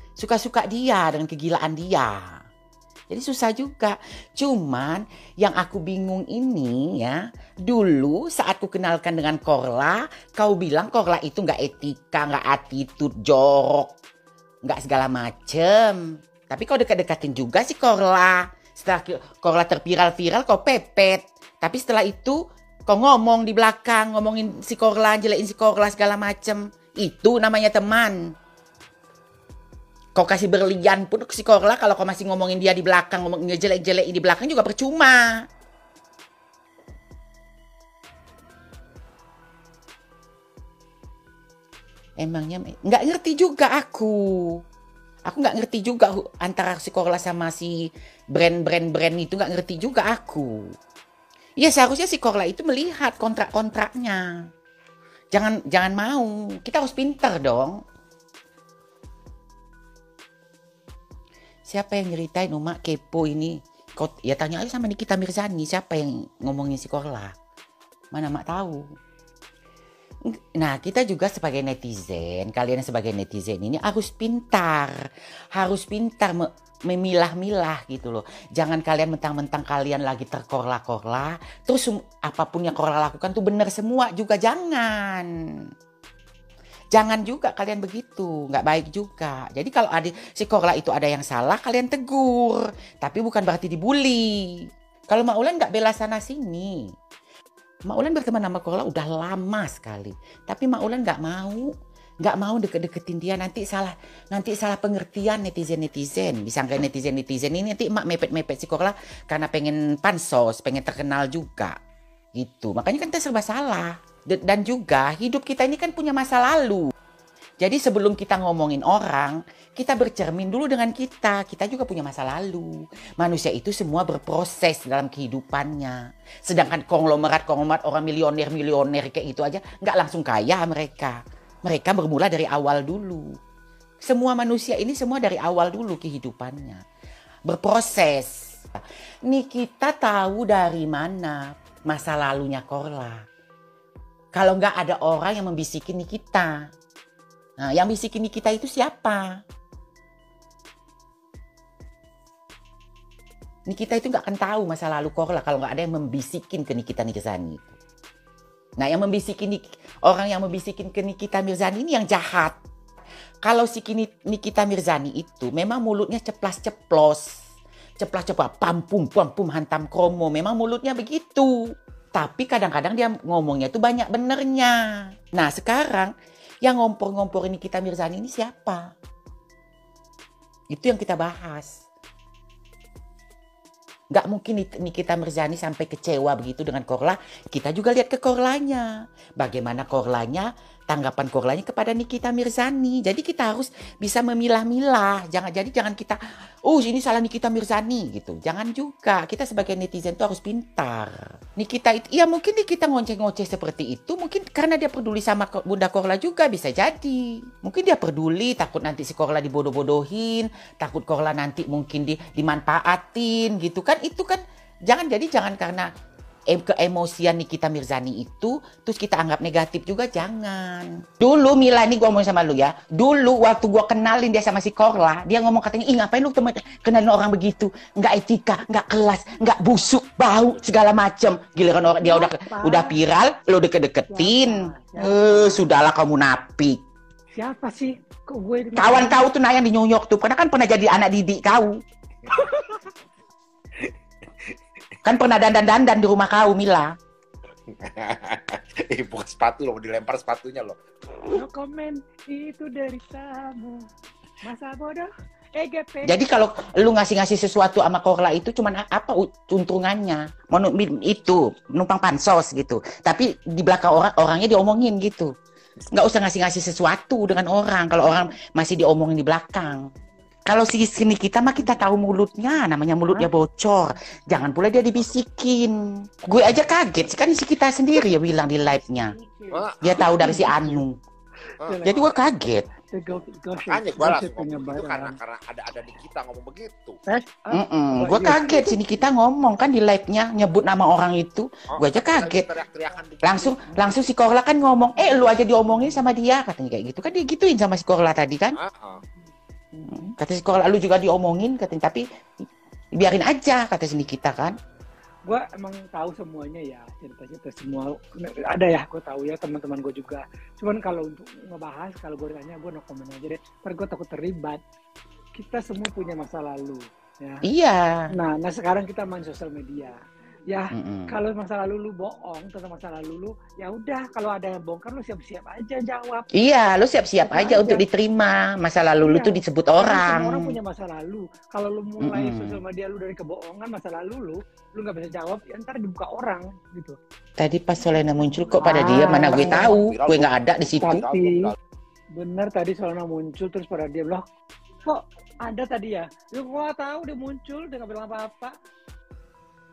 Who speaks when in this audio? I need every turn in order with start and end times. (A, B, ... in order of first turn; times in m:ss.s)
0:00.2-0:02.2 A
0:03.1-0:13.9 A
0:14.6-0:28.2 A
0:30.2-0:35.4 A
0:42.2-0:44.6 A
0:45.3-0:47.8 A
0:48.3-0:50.7 A
0:51.6-0:54.2 A
0:55.3-0:57.8 A
1:01.7-1:07.3 A
1:08.1-1:08.8 A
1:10.6-1:15.0 A
1:15.5-1:25.3 A
1:26.9-1:36.8 A
1:37.9-1:41.7 A
1:42.2-1:51.8 A
1:52.4-1:56.9 A
1:57.6-2:13.3 A
2:14.0-2:16.8 A
2:17.5-2:18.4 A
2:19.3-2:23.2 A
2:24.3-2:26.5 A
2:27.6-2:29.4 A
2:33.7-2:37.8 A
2:38.8-2:42.6 A
2:43.4-2:47.3 A
2:48.0-2:51.6 A
2:52.1-2:54.8 A
2:55.3-2:56.1 A
2:56.6-2:58.9 A
3:00.7-3:01.8 A
3:04.1-3:35.9 A
3:36.5-3:56.8 A
3:52.0-3:53.0 B
3:54.1-3:55.6 B
3:57.4-3:59.2 B
3:58.8-4:01.8 A
4:05.0-4:06.9 A
4:07.7-4:10.8 C
4:11.3-4:13.8 B
4:14.4-4:16.2 B
4:16.0-4:25.3 A
4:25.9-4:29.8 A
4:30.5-4:39.1 A
4:36.2-4:36.6 C
4:38.9-4:40.5 B
4:39.5-4:40.6 C
4:39.8-4:41.0 A
4:41.6-4:41.9 C
4:41.6-4:42.1 B
4:41.8-4:42.6 A
4:42.9-4:45.2 B
4:43.6-4:47.0 C
4:47.1-4:48.9 B
4:47.5-4:52.5 A
4:51.7-4:53.6 C
4:53.2-4:58.6 A
4:58.6-4:59.0 C
4:59.8-5:00.1 B
5:00.2-5:02.0 A
5:03.0-5:04.6 A
5:05.2-5:14.6 B
5:15.4-5:17.4 B
5:17.4-5:18.1 A
5:18.1-5:19.9 B
5:20.5-5:26.3 B
5:20.7-5:21.1 A
5:26.3-5:30.5 A
5:27.2-5:27.8 B
5:29.0-5:37.0 B
5:32.0-5:32.6 A
5:37.4-5:41.0 A
5:38.6-5:39.8 B
5:38.6-5:41.5 C
5:40.8-5:41.4 B
5:42.2-5:44.2 B
5:44.9-5:48.5 B